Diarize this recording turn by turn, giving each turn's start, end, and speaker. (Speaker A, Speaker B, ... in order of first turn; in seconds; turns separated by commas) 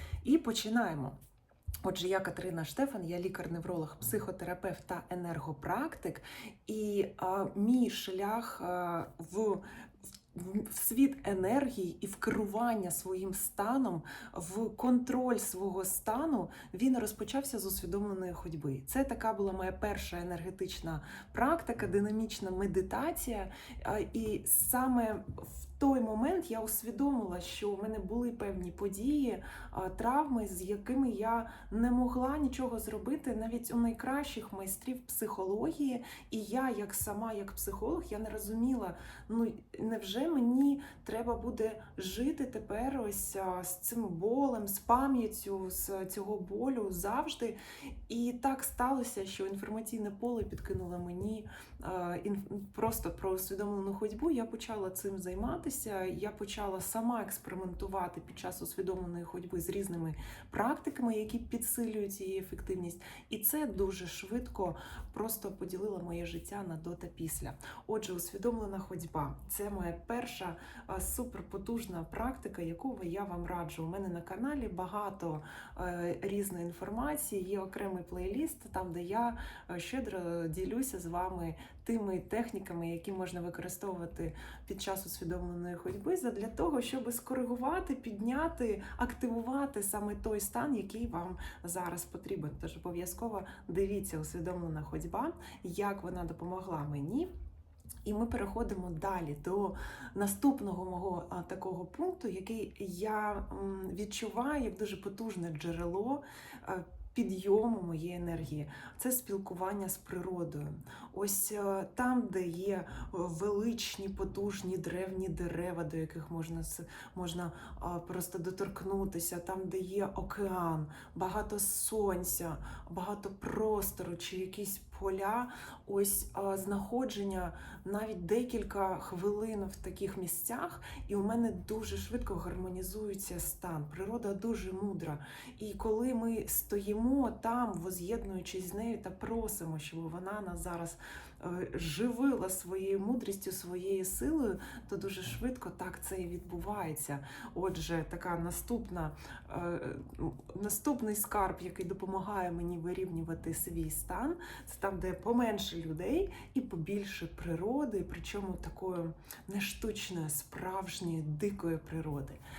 Speaker A: 0.2-1.1, Speaker A: 1.8-9.6, Speaker A: 10.3-97.3, Speaker A: 98.0-162.4